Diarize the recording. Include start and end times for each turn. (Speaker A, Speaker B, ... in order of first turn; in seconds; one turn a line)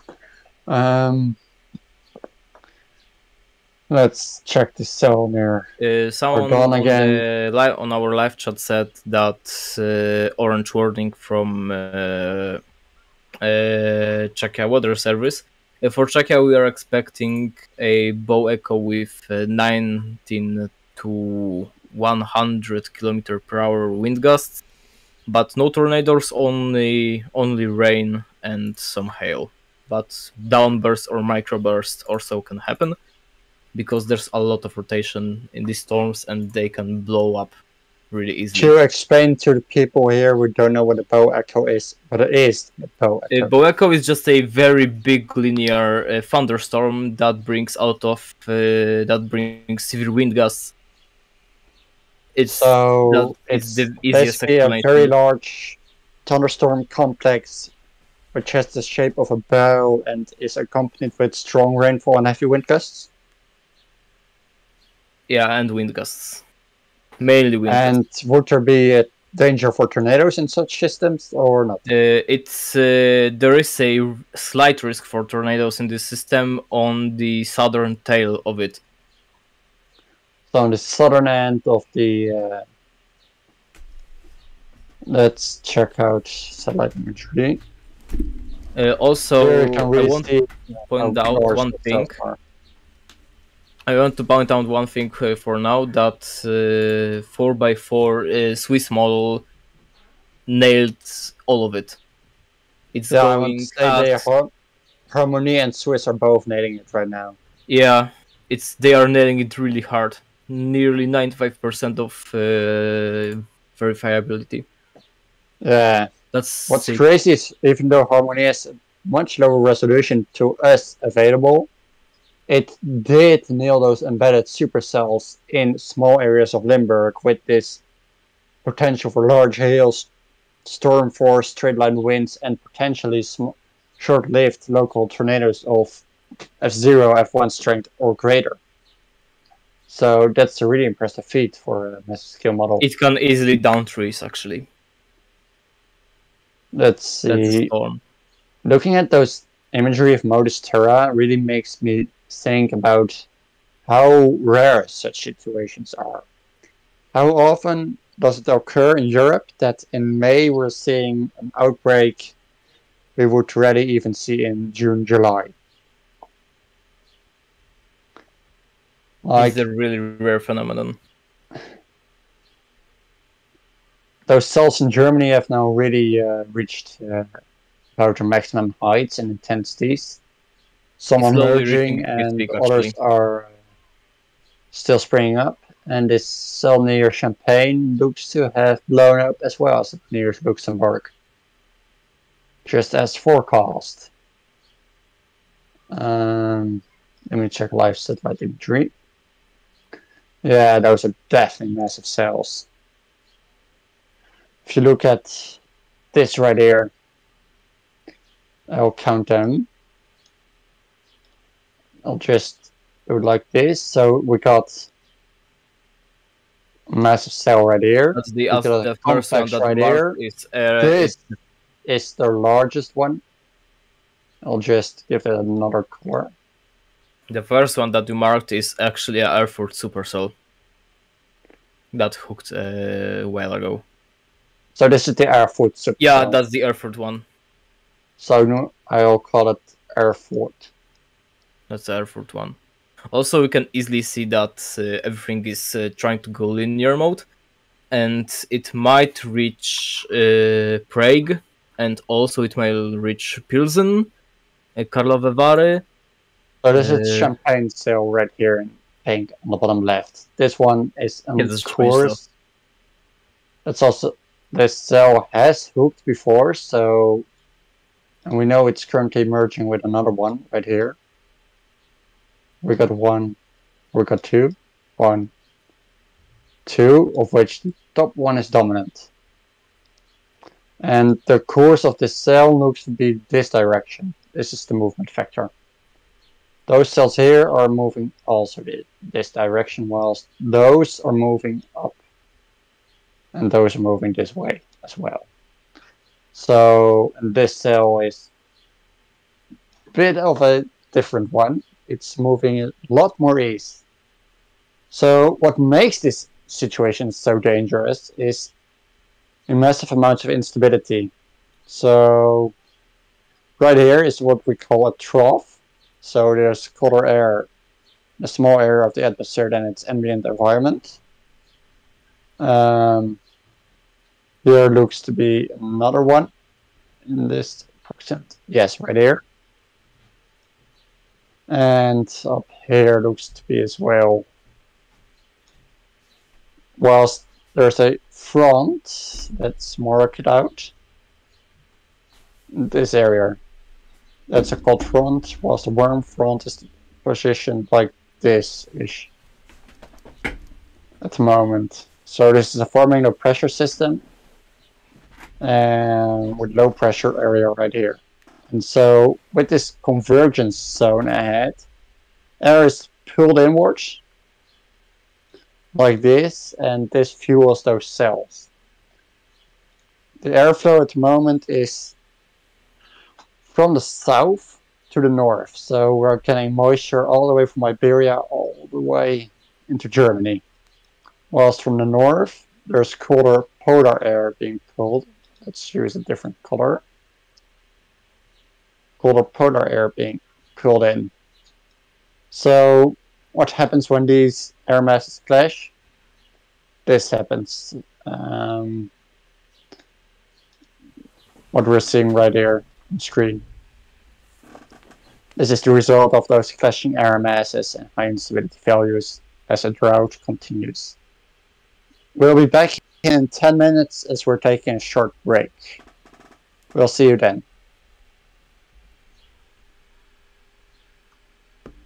Speaker A: 0.7-1.4
Speaker A: 3.9-5.7
Speaker B: 5.8-12.6
Speaker A: 6.3-7.2
Speaker B: 13.4-24.6
Speaker B: 25.3-32.9
Speaker B: 33.7-37.5
Speaker B: 38.1-38.7
Speaker A: 38.5-43.5
Speaker B: 43.3-50.7
Speaker B: 52.3-55.1
Speaker A: 52.5-57.7
Speaker A: 58.3-63.1
Speaker B: 65.3-66.4
Speaker B: 67.2-67.9
Speaker A: 67.7-71.8
Speaker B: 71.8-78.8
Speaker A: 80.5-82.6
Speaker A: 85.1-87.6
Speaker B: 88.7-90.3
Speaker A: 89.4-92.4
Speaker B: 90.9-92.2
Speaker B: 93.9-99.4
Speaker B: 100.5-102.0
Speaker B: 102.9-104.2
Speaker A: 103.1-104.5
Speaker A: 105.1-107.3
Speaker B: 107.7-114.7
Speaker A: 115.6-116.1
Speaker B: 116.3-117.0
Speaker A: 116.7-121.7
Speaker A: 122.5-127.8
Speaker A: 128.6-130.1
Speaker A: 130.6-136.0
Speaker A: 136.6-138.6
Speaker A: 139.9-142.8
Speaker B: 142.8-144.7
Speaker A: 146.7-147.7
Speaker B: 147.3-148.0
Speaker A: 148.6-153.2
Speaker A: 153.9-156.2
Speaker A: 157.1-162.3
Speaker A: 163.2-165.5
Speaker A: 169.2-169.6
Speaker B: 169.3-171.0
Speaker A: 174.3-177.3
Speaker A: 178.0-180.2
Speaker A: 181.0-183.5
Speaker B: 181.2-182.9
Speaker A: 184.7-191.1
Speaker A: 192.6-194.1
Speaker A: 195.9-198.9
Speaker A: 200.4-202.7
Speaker A: 204.6-205.6
Speaker A: 206.1-206.9
Speaker A: 208.7-209.7
Speaker A: 212.0-214.9
Speaker A: 216.9-220.2
Speaker B: 218.1-221.2
Speaker A: 220.8-221.2
Speaker A: 221.8-223.2
Speaker A: 224.4-226.3
Speaker B: 227.3-230.3
Speaker B: 231.9-233.8
Speaker A: 234.8-236.4
Speaker B: 236.0-237.2
Speaker A: 238.2-240.7
Speaker B: 241.7-242.6
Speaker B: 243.1-247.2
Speaker B: 247.9-254.1
Speaker B: 254.8-255.8
Speaker A: 256.6-262.2
Speaker B: 256.7-257.3
Speaker B: 261.4-262.2
Speaker A: 263.6-267.2
Speaker A: 268.2-270.9
Speaker A: 272.6-273.4
Speaker A: 273.9-275.3
Speaker A: 276.6-279.1
Speaker A: 280.8-285.5
Speaker A: 286.7-292.0
Speaker A: 293.3-295.2
Speaker A: 296.3-298.3
Speaker A: 299.9-303.8
Speaker A: 304.9-308.5
Speaker A: 309.5-311.1
Speaker A: 311.7-312.5
Speaker A: 313.6-317.5
Speaker A: 318.2-321.0
Speaker A: 322.4-323.2
Speaker A: 324.4-326.3
Speaker A: 327.1-329.2
Speaker A: 331.5-334.2
Speaker A: 336.8-340.7
Speaker A: 342.5-343.4
Speaker A: 344.3-349.1
Speaker A: 351.0-354.0
Speaker A: 355.4-361.6
Speaker A: 362.4-364.0
Speaker A: 365.7-368.5
Speaker A: 370.2-371.9
Speaker A: 373.5-380.4
Speaker A: 381.3-386.8
Speaker A: 389.0-391.1
Speaker A: 392.3-395.7
Speaker A: 396.9-398.9
Speaker A: 401.5-403.4
Speaker A: 405.4-410.9
Speaker A: 412.1-415.8
Speaker A: 416.7-417.4